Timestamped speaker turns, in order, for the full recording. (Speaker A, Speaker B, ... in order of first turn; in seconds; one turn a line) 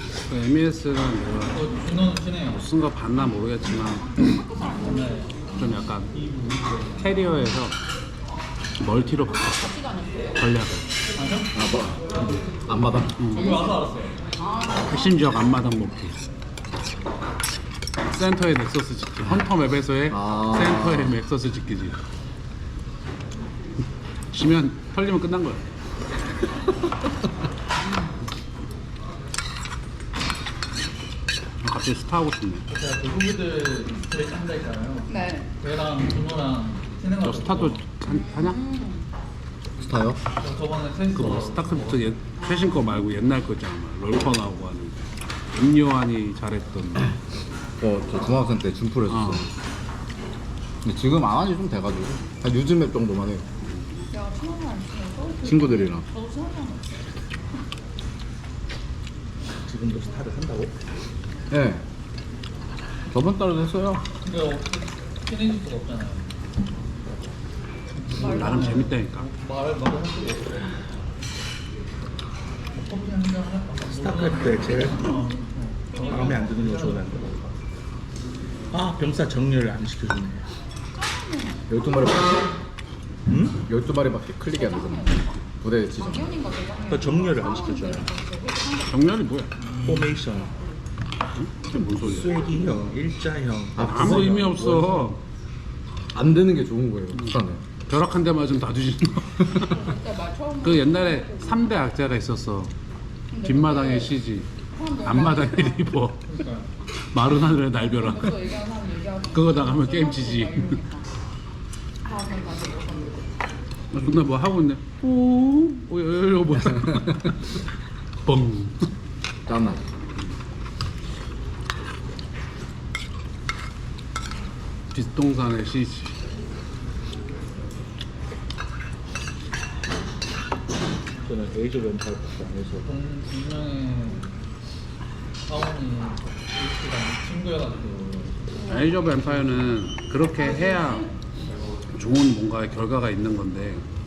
Speaker A: 0.2-1.7
Speaker B: 1.5-2.7
Speaker A: 2.5-4.3
Speaker C: 3.8-5.6
Speaker B: 4.8-5.5
Speaker A: 5.5-6.2
Speaker A: 7.0-7.8
Speaker A: 8.8-9.7
Speaker C: 9.5-10.4
Speaker A: 10.4-10.9
Speaker B: 11.2-11.5
Speaker D: 11.6-13.2
Speaker A: 13.2-13.6
Speaker C: 13.3-15.2
Speaker B: 13.3-14.2
Speaker A: 14.9-16.2
Speaker A: 18.0-22.0
Speaker D: 20.1-21.1
Speaker A: 24.3-25.6
Speaker A: 31.6-32.6
Speaker B: 32.7-37.8
Speaker C: 35.1-35.5
Speaker A: 37.2-38.6
Speaker C: 38.0-39.1
Speaker D: 39.8-40.2
Speaker B: 40.4-42.2
Speaker A: 41.1-45.0
Speaker C: 42.4-43.1
Speaker A: 45.5-47.1
Speaker D: 47.8-49.5
Speaker A: 49.1-49.5
Speaker D: 50.8-53.5
Speaker A: 53.7-54.1
Speaker C: 54.1-57.1
Speaker D: 55.4-56.1
Speaker E: 59.6-60.7
Speaker D: 61.5-61.8
Speaker D: 63.1-64.1
Speaker B: 64.2-66.3
Speaker B: 67.9-70.9
Speaker C: 68.2-68.9
Speaker A: 68.2-69.3
Speaker B: 72.7-77.5
Speaker E: 73.8-75.0
Speaker C: 74.8-75.3
Speaker C: 75.9-76.5
Speaker E: 76.0-77.3
Speaker E: 78.7-80.5
Speaker C: 81.0-81.7
Speaker D: 81.7-82.5
Speaker E: 83.3-83.6
Speaker D: 83.5-86.4
Speaker C: 84.5-85.4
Speaker C: 86.0-89.2
Speaker E: 86.9-88.1
Speaker A: 88.9-89.5
Speaker E: 89.8-90.5
Speaker A: 91.3-92.4
Speaker E: 91.7-94.7
Speaker D: 93.7-95.1
Speaker A: 93.9-95.2
Speaker D: 96.1-97.6
Speaker A: 97.1-99.8
Speaker C: 99.5-101.8
Speaker A: 100.6-102.7
Speaker C: 103.3-104.2
Speaker A: 103.4-106.3
Speaker C: 104.7-106.0
Speaker B: 106.3-106.7
Speaker A: 106.9-108.6
Speaker C: 108.0-111.1
Speaker A: 109.3-110.8
Speaker C: 112.0-113.3
Speaker A: 113.9-117.6
Speaker A: 118.2-118.9
Speaker D: 119.5-119.8
Speaker A: 124.9-126.1
Speaker E: 131.2-132.9
Speaker B: 132.8-134.3
Speaker B: 135.4-138.5
Speaker C: 138.6-139.0
Speaker A: 138.7-141.1
Speaker C: 140.3-141.1
Speaker A: 141.9-143.9